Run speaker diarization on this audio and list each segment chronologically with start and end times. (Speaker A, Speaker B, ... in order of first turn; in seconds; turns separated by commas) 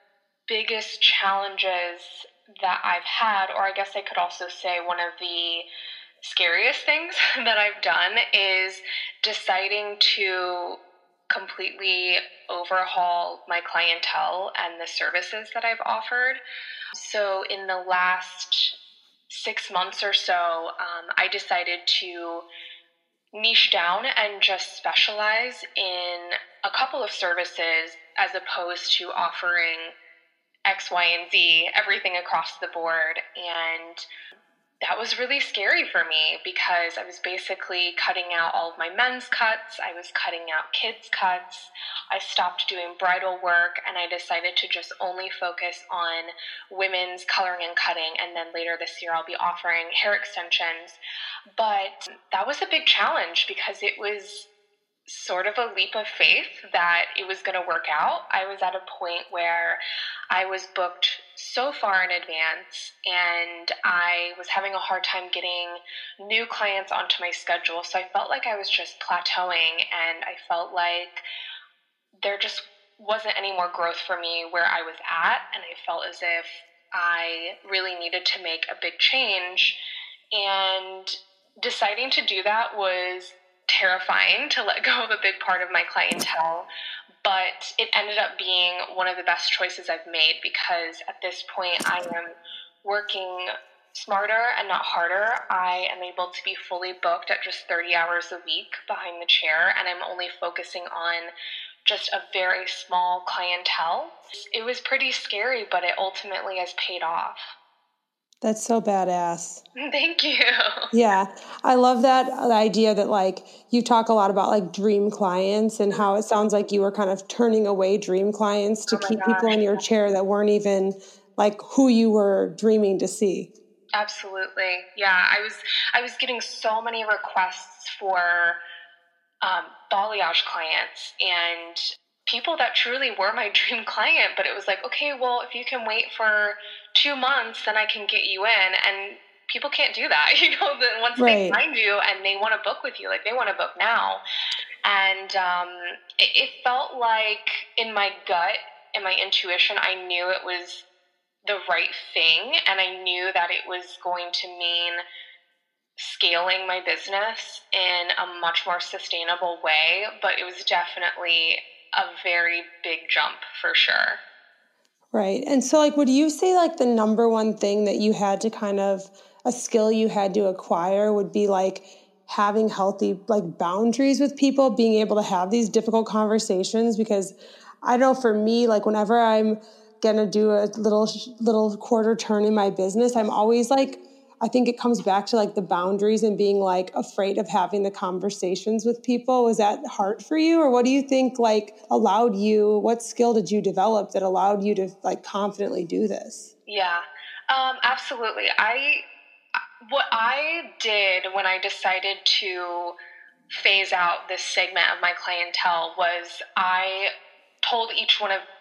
Speaker A: 0.5-5.7, Speaker A: 6.2-16.4, Speaker A: 16.9-18.7, Speaker A: 19.3-22.5, Speaker A: 23.3-29.9, Speaker A: 30.7-34.0, Speaker A: 34.8-51.0, Speaker A: 51.6-54.5, Speaker A: 55.1-59.8, Speaker A: 60.3-71.2, Speaker A: 72.2-79.8, Speaker A: 80.3-86.7, Speaker A: 87.2-101.3, Speaker A: 101.8-107.5, Speaker B: 108.4-109.6, Speaker A: 109.8-110.9, Speaker B: 110.9-123.5, Speaker A: 118.9-119.8, Speaker A: 124.0-128.6, Speaker A: 129.4-144.2, Speaker B: 141.2-141.6, Speaker A: 144.8-150.9, Speaker A: 151.4-155.0, Speaker A: 156.0-164.2, Speaker B: 165.1-196.5, Speaker A: 196.7-199.0, Speaker A: 199.8-202.9, Speaker A: 203.5-207.1, Speaker A: 207.6-208.4